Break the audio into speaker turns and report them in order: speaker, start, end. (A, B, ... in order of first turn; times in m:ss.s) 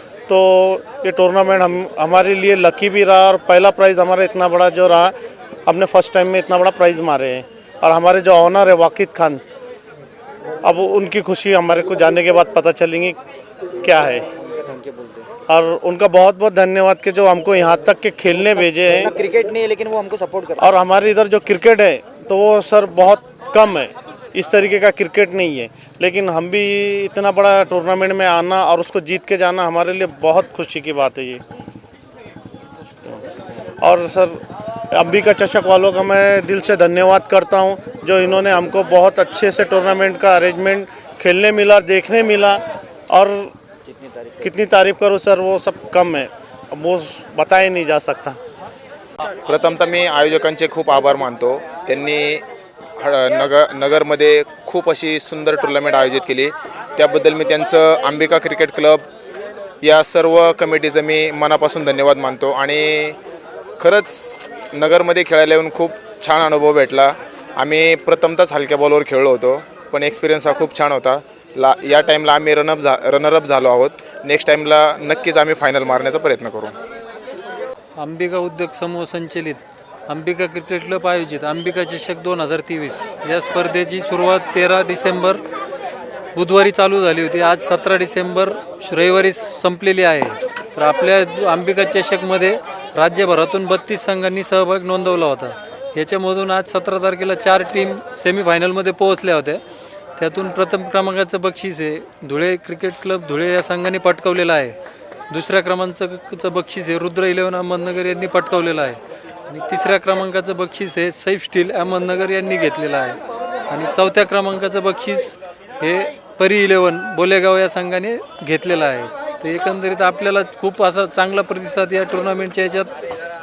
0:00.3-0:05.1 A
0:05.6-0:09.4 A
0:10.6-0:13.2 A
0:13.8-0:14.2 A
0:14.5-0:15.2 B
0:15.5-0:19.2 A
0:19.0-0:20.6 B
0:20.6-0:31.4 A
0:33.8-0:34.4 A
0:34.9-0:43.5 A
0:44.4-0:48.4 A
0:49.5-0:52.4 C
0:53.0-0:59.0 C
0:59.8-1:03.2 C
1:03.8-1:16.7 C
1:18.0-1:25.4 D
1:26.3-1:39.6 D
1:40.2-1:44.8 D
1:45.3-2:02.9 D